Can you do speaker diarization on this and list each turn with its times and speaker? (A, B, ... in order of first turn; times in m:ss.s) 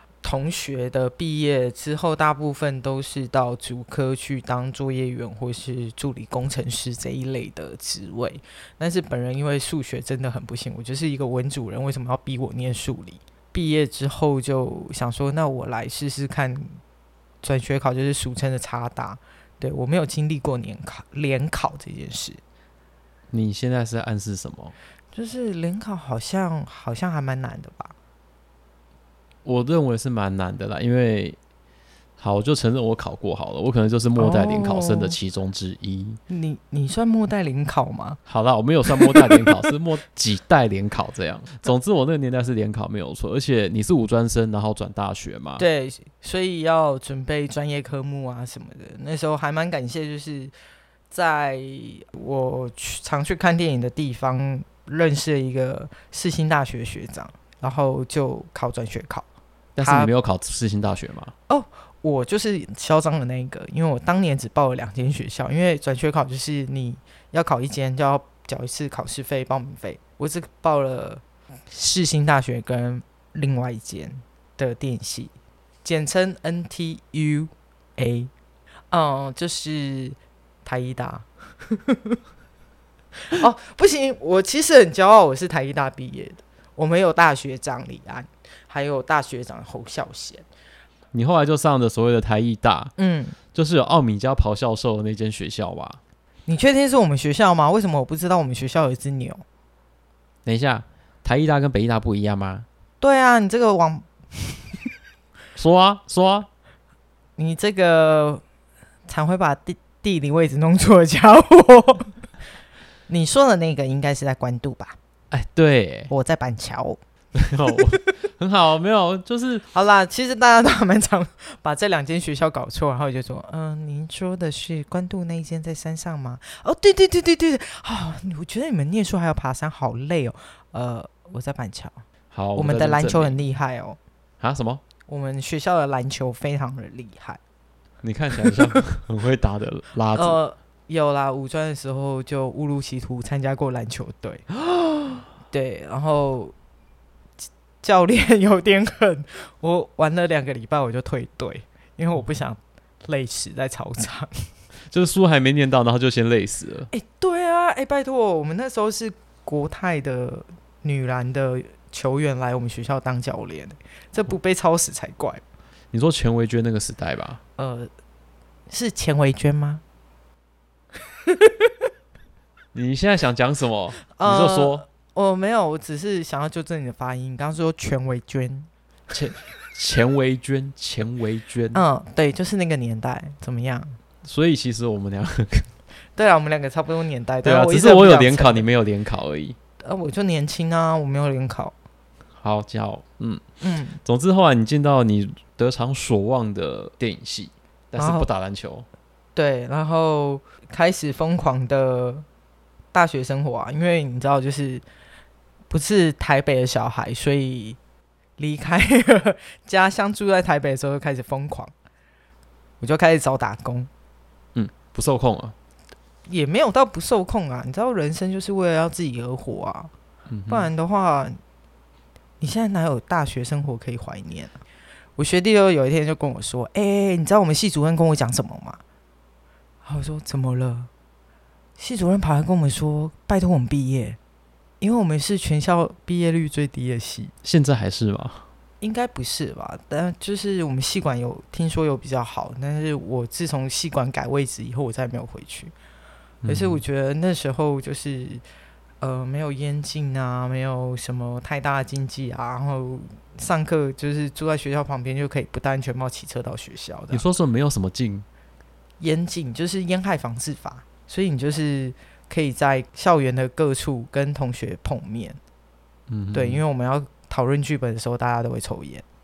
0:00.2-0:16.8 A
0:17.4-0:22.4 A
0:23.3-0:24.7 B
0:25.1-0:27.9 A
0:29.4-0:31.4 B
0:32.2-0:36.2 B
0:34.2-0:35.2 A
0:36.3-0:38.2 A
0:38.3-0:45.6 B
0:38.8-0:39.5 A
0:45.6-0:50.5 A
0:51.1-0:59.2 A
0:59.8-1:01.3 B
0:59.8-1:00.1 A
1:01.5-1:15.3 A
1:15.8-1:18.3 A
1:18.9-1:22.2 A
1:23.3-1:30.4 A
1:31.1-1:32.9 B
1:33.0-1:33.4 A
1:33.5-1:36.0 B
1:36.5-1:39.4 A
1:40.4-1:42.6 B
1:43.0-1:44.7 A
1:45.6-1:46.5 B
1:47.4-1:48.4 A
1:49.1-1:52.2 A
1:53.1-1:55.0 A
1:55.3-1:56.1 B
1:56.1-1:57.0 A
1:57.3-1:59.6 B
1:57.6-1:58.1 A
1:59.7-2:12.0 A
2:12.3-2:13.4 B
2:12.5-2:14.0 A
2:14.4-2:14.8 B
2:15.1-2:17.4 A
2:18.0-2:20.4 B
2:18.4-2:18.8 A
2:20.1-2:26.5 A
2:27.8-2:34.5 A
2:34.9-2:36.9 B
2:36.9-2:45.4 A
2:45.9-2:47.4 B
2:47.6-2:47.9 A
2:48.7-2:49.8 A
2:51.3-2:51.7 A
2:52.7-2:54.8 B
2:54.1-2:58.7 A
2:59.1-3:01.8 B
3:01.7-3:04.0 A
3:04.2-3:05.7 B
3:06.2-3:08.7 A
3:07.4-3:09.6 B
3:09.8-3:11.7 A
3:12.4-3:13.4 B
3:13.6-3:14.0 A
3:14.0-3:18.8 B
3:18.0-3:18.3 A
3:19.3-3:22.2 A
3:22.9-3:24.8 A
3:25.7-3:27.8 A
3:28.4-3:31.7 A
3:32.8-3:33.9 A
3:34.5-3:35.5 B
3:36.3-3:39.9 A
3:40.3-3:40.7 B
3:40.5-3:41.4 A
3:42.4-3:44.6 A
3:45.2-3:48.8 A
3:49.8-3:50.9 A
3:51.8-3:54.2 A
3:54.8-3:57.3 A
3:57.4-3:58.4 B
3:58.8-4:05.7 A
4:06.4-4:06.8 B
4:06.5-4:08.4 A
4:09.0-4:17.2 A
4:17.1-4:18.2 B
4:19.0-4:25.4 A
4:26.1-4:26.6 B
4:26.3-4:29.0 A